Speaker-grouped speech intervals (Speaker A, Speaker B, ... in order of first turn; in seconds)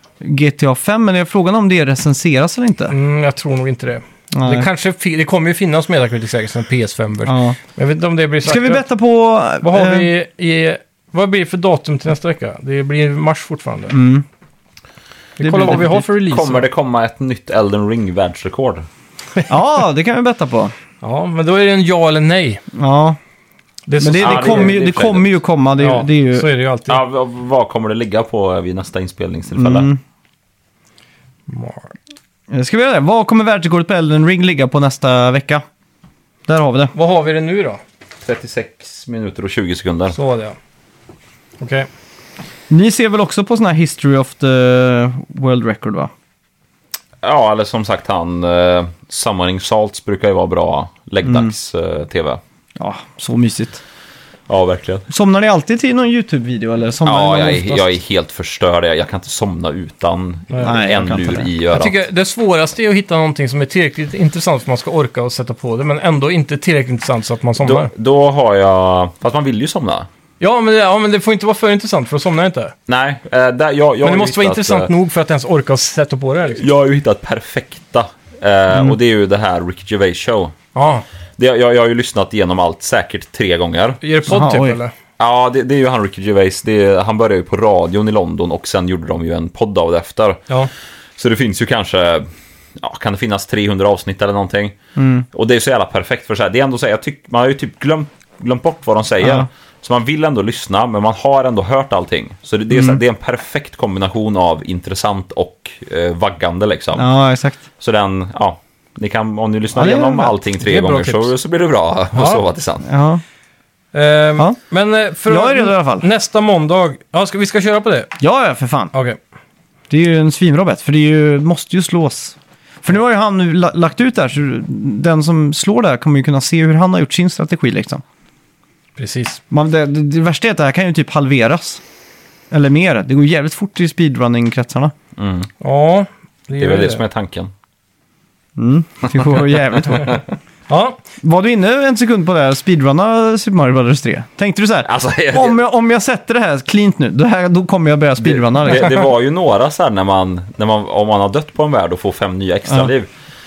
Speaker A: 0.2-2.9, 4.3-4.7, 7.3-7.6, 8.4-10.1, 13.9-14.2, 15.4-16.0, 19.5-20.7, 22.7-23.2, 24.0-26.5, 29.5-30.0, 32.5-35.6, 36.5-36.9, 42.7-46.1, 51.2-51.5, 52.8-53.8, 55.1-57.9, 60.6-61.5, 84.3-84.8, 95.0-95.2, 99.2-99.5, 102.7-103.0, 107.0-107.6, 109.7-110.3, 112.8-113.2, 115.2-116.0, 118.2-118.9, 119.9-128.0, 129.5-131.8, 132.5-134.9, 138.6-140.2, 141.2-149.1
Speaker B: 2.9-8.8, 9.6-14.0, 15.4-16.6, 21.0-22.6, 23.9-24.8, 25.8-27.0, 31.5-31.9, 36.9-37.8, 40.1-40.5, 41.6-41.9, 60.5-60.8, 61.7-67.9, 70.4-72.7, 74.0-76.6, 80.7-81.0, 84.0-84.9, 110.6-111.3, 112.1-112.4, 113.9-118.1, 118.9-119.2, 129.0-129.4, 135.6-137.0, 140.7-141.0
Speaker C: 15.7-18.9, 24.1-25.4, 26.9-29.9, 38.2-40.1, 47.2-52.4, 54.5-55.1, 57.0-62.0, 67.6-70.1, 72.9-74.9, 76.5-80.5, 81.4-84.0, 85.2-90.4, 91.2-92.3, 92.8-94.8, 95.3-107.1, 107.8-112.8, 135.2-135.5, 136.6-137.5, 144.9-145.6, 148.2-153.1